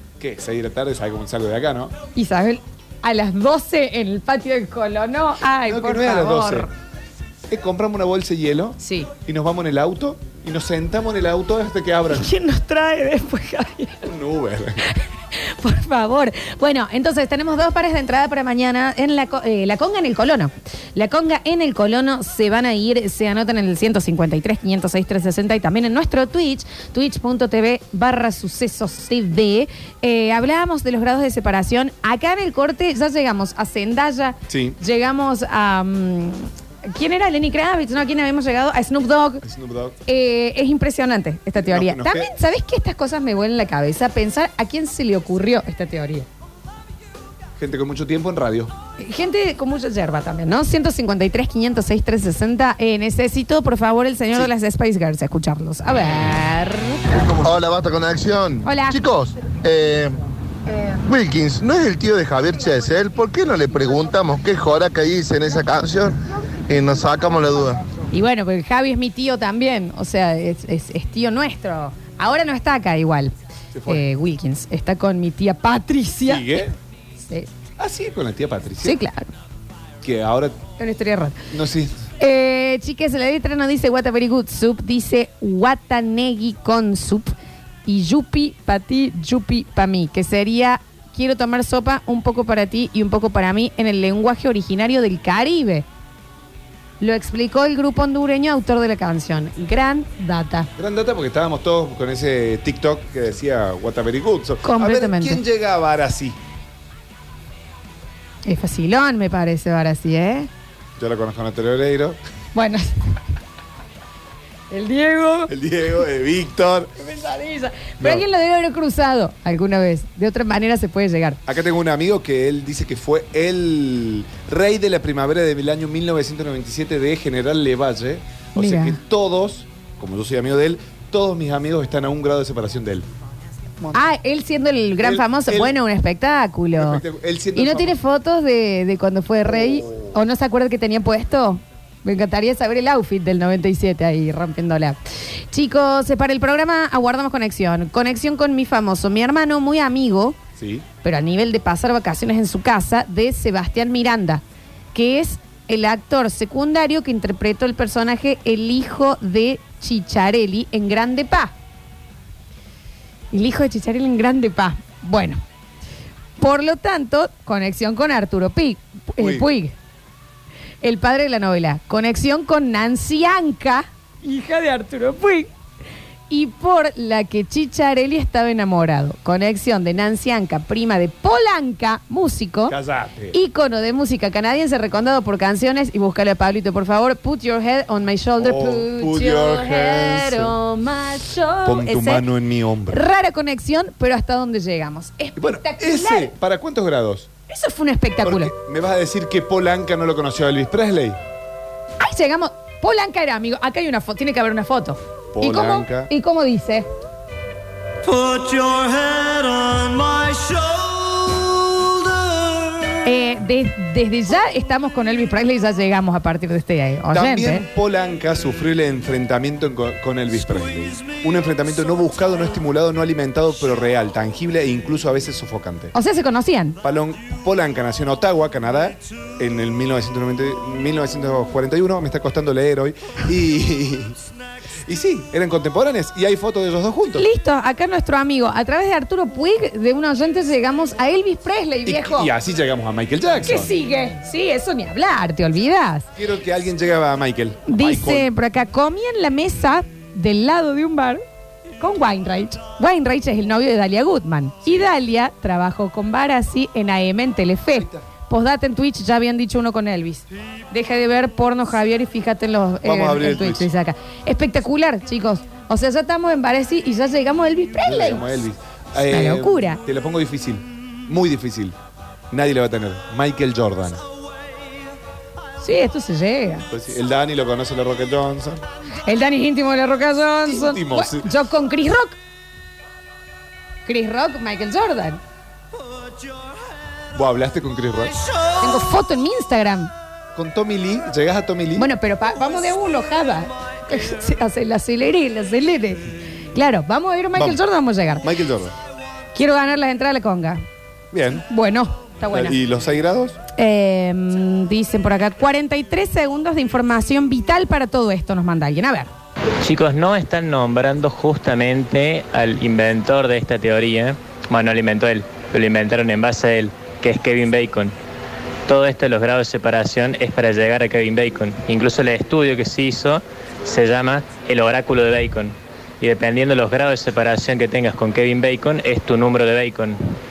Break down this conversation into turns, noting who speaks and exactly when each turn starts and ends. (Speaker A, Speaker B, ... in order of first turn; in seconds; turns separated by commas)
Speaker A: 0.2-1.9, Speaker B: 2.1-6.7, Speaker A: 5.7-6.7, Speaker A: 7.5-12.3, Speaker B: 8.8-9.1, Speaker B: 12.2-14.1, Speaker A: 14.1-14.8, Speaker B: 15.3-39.4, Speaker A: 34.5-34.8, Speaker A: 39.4-40.0, Speaker B: 40.1-46.3, Speaker A: 41.6-42.3, Speaker A: 47.6-48.7, Speaker B: 49.0-57.0, Speaker C: 57.1-60.2, Speaker B: 58.6-59.0, Speaker C: 61.0-67.8, Speaker B: 68.1-73.3, Speaker A: 73.7-74.0, Speaker B: 73.9-76.7, Speaker A: 76.2-76.8, Speaker B: 77.2-77.5, Speaker A: 77.8-79.0, Speaker B: 78.8-79.3, Speaker A: 80.0-80.6, Speaker B: 80.8-81.4, Speaker A: 81.5-82.0, Speaker B: 82.2-87.3, Speaker B: 87.9-95.9, Speaker B: 97.0-100.7, Speaker A: 100.8-106.4, Speaker B: 104.6-105.4, Speaker B: 108.5-110.5, Speaker A: 111.0-112.2, Speaker B: 112.5-112.9, Speaker B: 114.7-115.5, Speaker A: 115.5-116.9, Speaker B: 117.0-121.4, Speaker A: 121.5-133.1, Speaker B: 128.6-128.9, Speaker B: 133.9-137.0, Speaker A: 135.0-135.8, Speaker A: 136.8-138.0, Speaker B: 137.6-145.0, Speaker A: 139.5-140.2, Speaker B: 145.5-150.4, Speaker A: 150.6-150.8, Speaker B: 151.0-154.4, Speaker B: 154.9-161.5, Speaker B: 163.3-165.4, Speaker B: 166.4-169.7, Speaker A: 169.2-169.5, Speaker B: 170.8-175.5, Speaker B: 176.3-182.8, Speaker A: 182.7-183.3, Speaker B: 183.3-192.2, Speaker A: 188.4-190.5, Speaker A: 191.6-193.0, Speaker B: 192.9-196.3, Speaker A: 195.4-197.3, Speaker B: 197.5-198.5, Speaker A: 198.2-201.2, Speaker B: 202.0-206.9, Speaker A: 205.3-206.1, Speaker D: 208.1-210.5, Speaker B: 213.0-217.7, Speaker A: 217.1-225.9, Speaker B: 225.9-226.8, Speaker A: 226.8-234.2, Speaker A: 234.9-237.3, Speaker B: 237.2-242.3, Speaker A: 241.9-243.7, Speaker B: 243.4-246.1, Speaker A: 246.2-248.3, Speaker B: 247.7-251.2, Speaker B: 251.8-268.3, Speaker A: 257.7-258.1, Speaker A: 262.8-263.7, Speaker A: 267.8-271.8, Speaker B: 269.1-269.8, Speaker A: 272.3-274.0, Speaker B: 275.6-276.7, Speaker A: 276.7-278.6, Speaker B: 279.1-282.2, Speaker A: 280.5-281.3, Speaker B: 283.9-285.2, Speaker A: 287.1-288.2, Speaker B: 288.6-289.9, Speaker A: 290.4-291.9, Speaker B: 291.8-298.2, Speaker A: 297.4-297.6, Speaker A: 298.2-298.7, Speaker B: 299.4-300.6, Speaker A: 301.1-301.5, Speaker B: 301.5-302.6, Speaker A: 302.3-303.4, Speaker B: 303.6-309.1, Speaker E: 309.6-317.9, Speaker E: 318.7-330.2